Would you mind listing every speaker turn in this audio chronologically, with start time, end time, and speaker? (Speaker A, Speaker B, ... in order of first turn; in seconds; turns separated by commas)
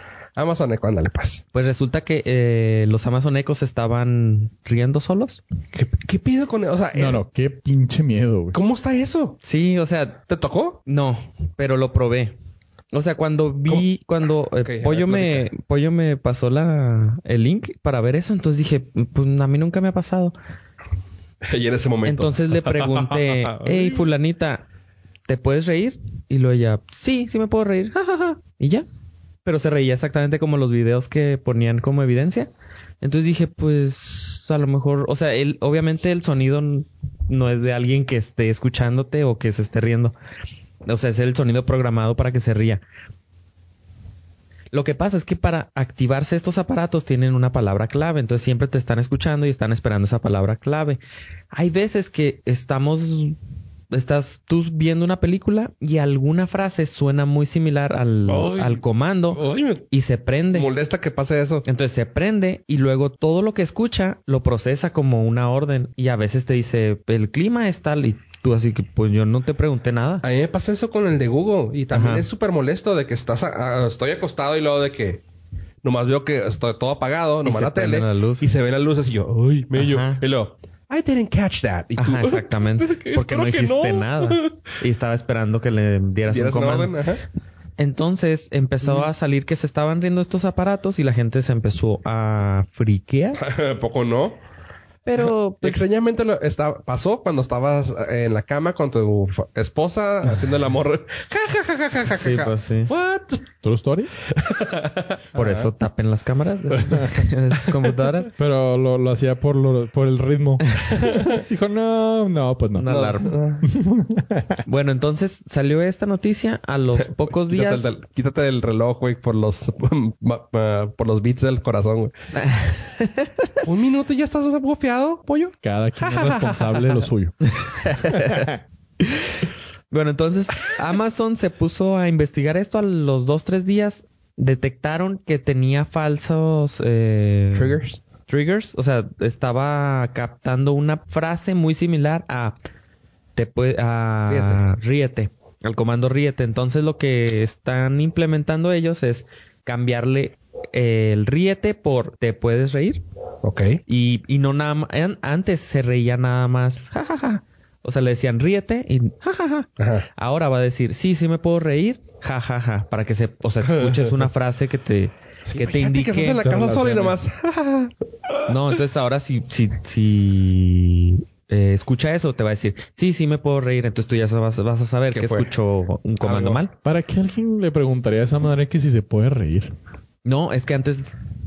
Speaker A: 0.4-1.4, Speaker B: 1.5-5.4, Speaker A: 5.7-7.2, Speaker C: 6.9-8.6, Speaker A: 8.5-9.4, Speaker B: 9.4-10.2, Speaker A: 10.3-10.8, Speaker B: 10.9-12.4, Speaker B: 12.9-20.4, Speaker A: 14.6-15.5, Speaker A: 21.4-24.0, Speaker B: 22.1-24.6, Speaker B: 25.3-28.9, Speaker B: 29.4-32.5, Speaker B: 33.0-40.1, Speaker B: 40.9-42.8, Speaker B: 44.7-51.0, Speaker B: 51.5-53.4, Speaker B: 53.9-60.7, Speaker A: 58.3-59.9, Speaker A: 60.5-61.7, Speaker B: 61.7-70.2, Speaker A: 70.2-75.2, Speaker B: 71.9-72.3, Speaker A: 75.8-84.6, Speaker B: 77.4-78.5, Speaker B: 79.8-80.2, Speaker B: 82.0-86.9, Speaker A: 86.3-87.2, Speaker B: 87.8-93.4, Speaker A: 88.8-89.1, Speaker A: 93.4-94.4, Speaker B: 95.0-95.8, Speaker A: 95.2-103.4, Speaker B: 102.1-102.9, Speaker C: 103.6-104.1, Speaker A: 104.3-105.7, Speaker B: 105.3-108.3, Speaker C: 106.8-107.3, Speaker C: 108.4-113.0, Speaker A: 111.0-111.3, Speaker B: 112.8-113.4, Speaker A: 112.9-113.7, Speaker C: 113.6-114.6, Speaker B: 114.7-117.9, Speaker A: 117.0-122.1, Speaker B: 122.3-123.5, Speaker A: 123.6-126.8, Speaker C: 125.6-127.4, Speaker B: 127.5-129.3, Speaker C: 128.0-128.6, Speaker B: 129.9-142.6, Speaker A: 137.5-138.0, Speaker B: 143.3-153.0, Speaker A: 144.3-144.6, Speaker A: 153.4-153.8, Speaker B: 153.9-166.4, Speaker A: 159.8-160.1, Speaker A: 163.7-164.1, Speaker A: 165.5-167.9, Speaker C: 166.4-167.2, Speaker B: 168.5-176.7, Speaker A: 175.1-175.5, Speaker C: 176.3-179.7, Speaker B: 180.2-181.2